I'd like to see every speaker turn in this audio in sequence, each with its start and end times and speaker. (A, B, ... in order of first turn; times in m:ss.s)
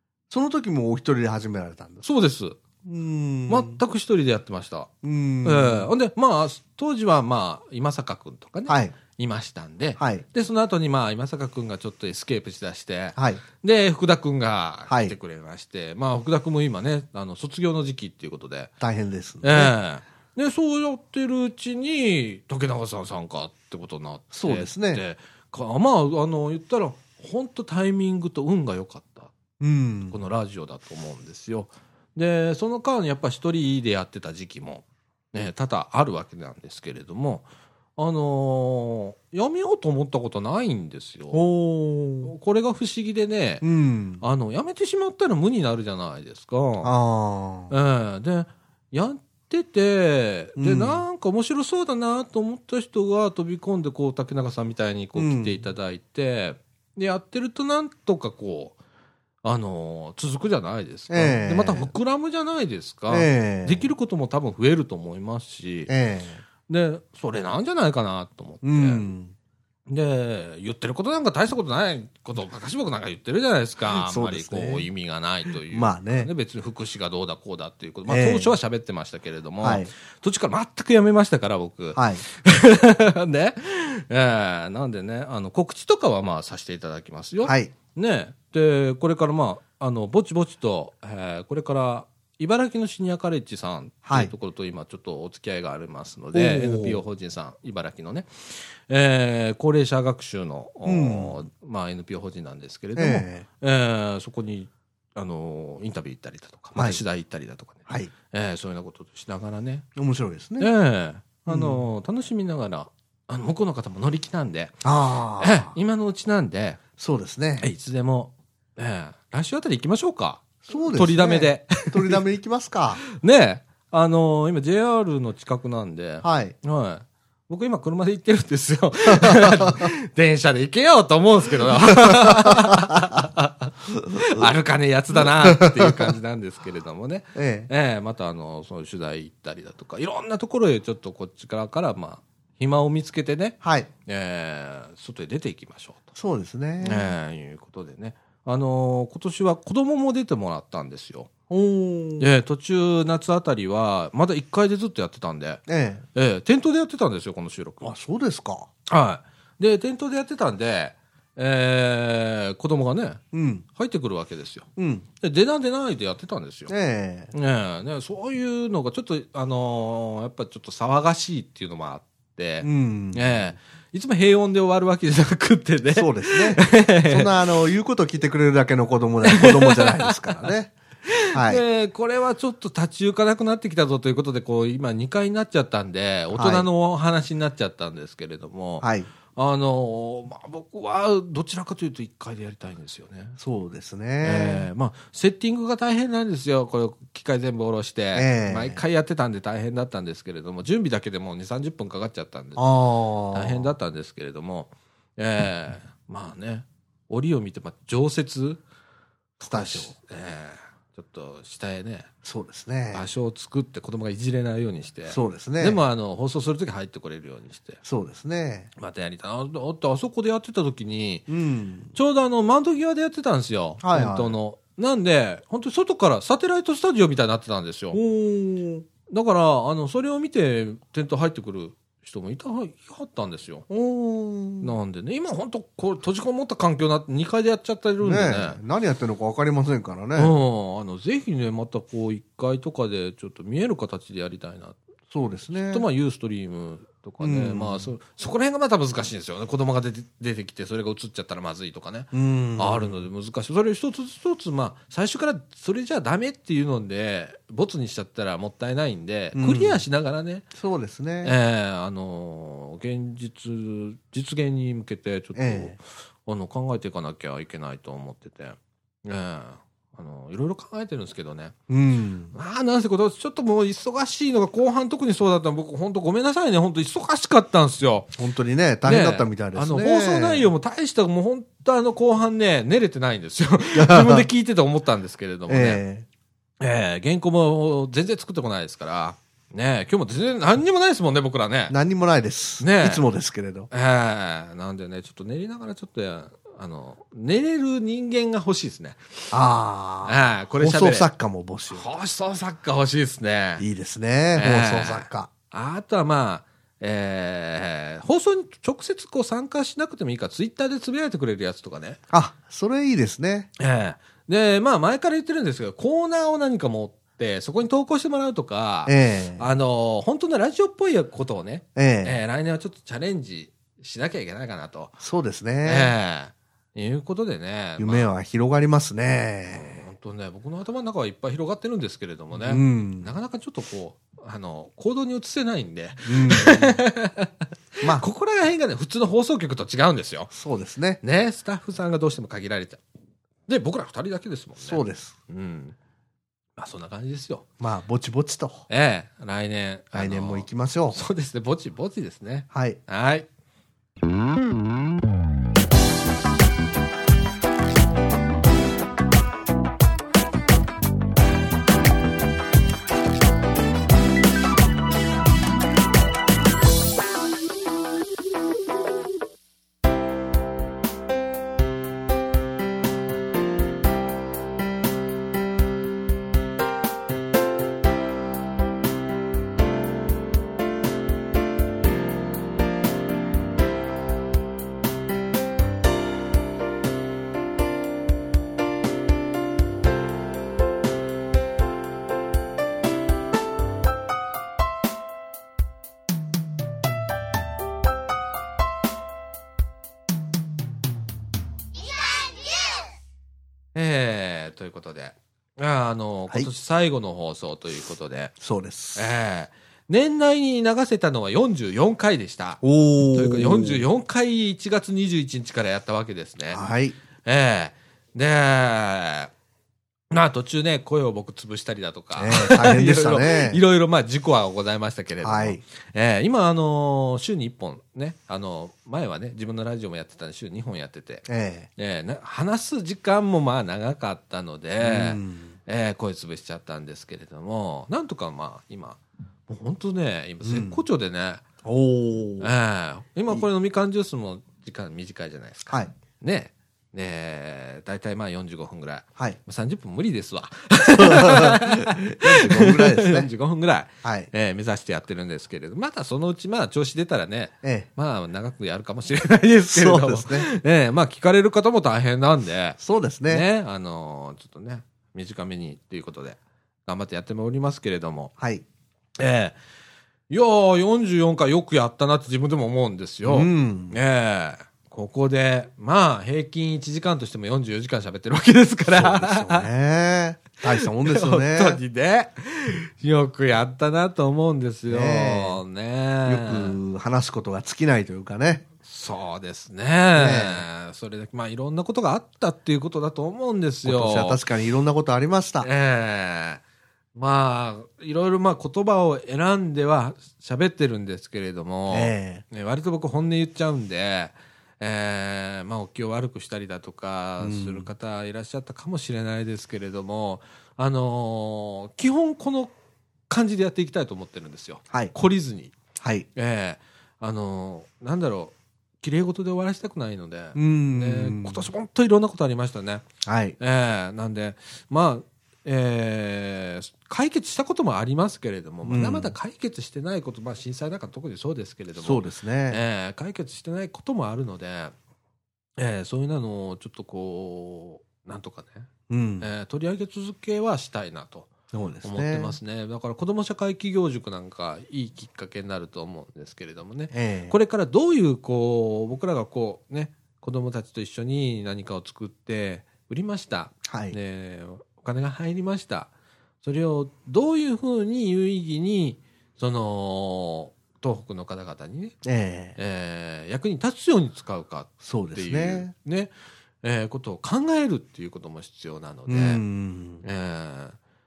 0:00.3-0:02.0 A
0:02.0-0:02.6 B
0:02.8-0:03.8 A
0:03.5-0:04.9 B
0:05.0-0:05.9 A
0:05.4-0:18.7 B
0:08.7-0:08.9 A
0:10.0-0:10.2 A
0:13.2-0:13.4 A
0:14.9-0:15.1 A
0:18.8-0:19.7 A
0:19.4-0:29.3 B
0:24.3-0:25.0 A
0:29.6-0:30.2 A
0:30.1-0:37.4 B
0:38.0-0:41.4 B
0:41.3-0:42.3 A
0:42.2-0:43.6 B
0:43.6-0:44.2 A
0:44.2-0:46.9 B
0:46.8-0:47.7 A
0:47.7-0:58.8 B
0:50.6-0:51.0 A
0:55.2-0:55.6 A
0:59.4-1:05.9 B
1:01.1-1:01.9 A
1:03.1-1:03.8 A
1:05.9-1:06.4 A
1:06.7-1:09.0 B
1:08.6-1:09.3 A
1:09.9-1:49.8 B
1:13.9-1:14.9 A
1:15.7-1:16.3 A
1:18.1-1:18.5 A
1:19.6-1:19.9 A
1:21.9-1:22.2 A
1:27.4-1:27.7 A
1:34.1-1:34.3 A
1:36.3-1:37.0 A
1:40.8-1:41.4 A
1:43.0-1:43.4 A
1:46.8-1:47.0 A
1:47.9-1:48.1 A
1:50.0-1:50.7 A
1:50.6-1:54.8 B
1:51.5-1:51.8 A
1:54.8-1:55.7 A
1:55.4-1:56.8 B
1:57.0-1:57.6 A
1:57.6-2:02.2 B
2:00.6-2:03.0 A
2:03.1-2:26.1 B
2:06.2-2:06.5 A
2:09.1-2:09.9 A
2:12.0-2:13.0 A
2:14.1-2:14.4 A
2:15.1-2:16.1 A
2:17.3-2:17.7 A
2:23.6-2:23.9 A
2:26.1-2:27.1 A
2:26.8-2:31.3 B
2:31.5-2:32.3 A
2:32.2-2:35.6 B
2:35.7-2:36.0 A
2:36.1-2:37.8 B
2:37.8-2:38.7 A
2:38.9-2:43.2 B
2:43.3-2:43.6 A
2:43.7-2:44.7 B
2:44.8-2:45.0 A
2:45.2-2:46.7 B
2:46.7-2:47.3 A
2:47.3-2:57.3 B
2:52.6-2:53.4 A
2:55.9-3:00.7 A
2:59.2-3:00.5 B
3:01.1-3:13.4 B
3:01.3-3:01.6 A
3:06.3-3:06.6 A
3:08.8-3:09.1 A
3:13.4-3:14.7 A
3:14.2-3:22.6 B
3:18.1-3:18.8 A
3:22.6-3:23.7 A
3:23.3-3:28.6 B
3:29.4-3:32.1 B
3:29.4-3:29.9 A
3:32.2-3:33.0 A
3:32.9-3:37.8 B
3:35.1-3:35.8 A
3:37.8-3:38.7 A
3:38.8-3:41.3 B
3:41.3-3:41.9 A
3:41.9-3:48.0 B
3:43.8-3:44.4 A
3:47.9-3:48.9 A
3:49.1-3:53.7 B
3:53.7-3:54.7 A
3:54.6-3:58.6 B
3:58.0-4:00.3 A
4:00.2-4:04.8 B
4:05.1-4:05.8 A
4:05.6-4:20.5 B
4:07.2-4:07.9 A
4:12.1-4:13.0 A
4:19.4-4:19.8 A
4:20.5-4:21.3 A
4:21.2-4:31.6 B
4:25.3-4:25.7 A
4:31.7-4:32.3 A
4:32.3-4:38.1 B
4:38.2-4:40.5 A
4:38.8-4:45.8 B
4:43.7-4:44.3 A
4:45.5-4:46.0 A
4:46.6-4:51.7 B
4:51.7-4:53.7 A
4:52.6-4:53.0 B
4:53.7-4:59.1 B
4:59.3-5:01.8 A
5:00.0-5:01.1 B
5:01.7-5:03.6 B
5:03.6-5:05.3 A
5:04.3-5:12.0 B
5:12.1-5:13.5 A
5:13.6-5:25.0 B
5:18.8-5:19.4 A
5:21.8-5:22.2 A
5:25.0-5:25.9 A
5:25.6-5:28.1 B
5:27.8-5:29.8 A
5:29.5-5:40.3 B
5:32.4-5:33.1 A
5:36.0-5:36.8 A
5:40.3-5:41.0 A
5:41.0-5:42.8 B
5:43.5-5:45.7 B
5:44.6-5:45.2 A
5:46.6-5:47.4 B
5:47.6-5:48.6 A
5:48.7-5:53.3 B
5:49.9-5:51.0 A
5:52.5-5:52.8 A
6:43.7-6:48.4 B
6:48.4-6:49.1 A
6:48.9-6:56.6 B
6:52.6-6:53.8 A
6:56.5-6:57.0 A
6:57.2-6:59.3 B
7:00.1-7:21.4 B
7:02.2-7:03.6 A
7:05.2-7:05.6 A
7:11.3-7:11.7 A
7:14.8-7:15.5 A
7:20.4-7:20.8 A
7:21.6-7:22.5 A
7:22.4-7:48.3 B
7:31.0-7:33.3 A
7:34.0-7:34.3 A
7:37.6-7:37.9 A
7:39.7-7:40.5 A
7:42.8-7:43.4 A
7:48.4-7:48.6 A
7:49.2-7:49.6 B
7:50.3-7:59.7 B
7:53.2-7:54.0 A
7:58.9-8:01.8 A
8:00.7-8:06.8 B
8:04.9-8:05.6 A
8:06.2-8:08.6 A
8:08.8-8:14.4 B
8:10.1-8:10.6 A
8:13.8-8:15.7 A
8:15.6-8:16.6 B
8:17.1-8:32.7 B
8:21.9-8:22.4 A
8:27.4-8:27.9 A
8:33.3-8:35.7 B
8:36.0-8:36.3 A
8:36.3-8:43.0 B
8:40.5-8:41.6 A
8:43.2-8:43.6 A
8:43.6-8:54.9 B
8:48.8-8:49.3 A
8:52.0-8:52.8 A
8:55.8-8:58.9 B
8:59.1-8:59.5 A
8:59.4-9:01.5 B
9:01.7-9:02.6 A
9:02.0-9:16.1 B
9:07.1-9:07.5 A
9:13.9-9:14.2 A
9:16.6-9:22.2 B
9:22.2-9:22.8 A
9:22.8-9:29.6 B
9:25.0-9:25.9 A
9:29.3-9:30.2 A
9:30.2-9:31.0 B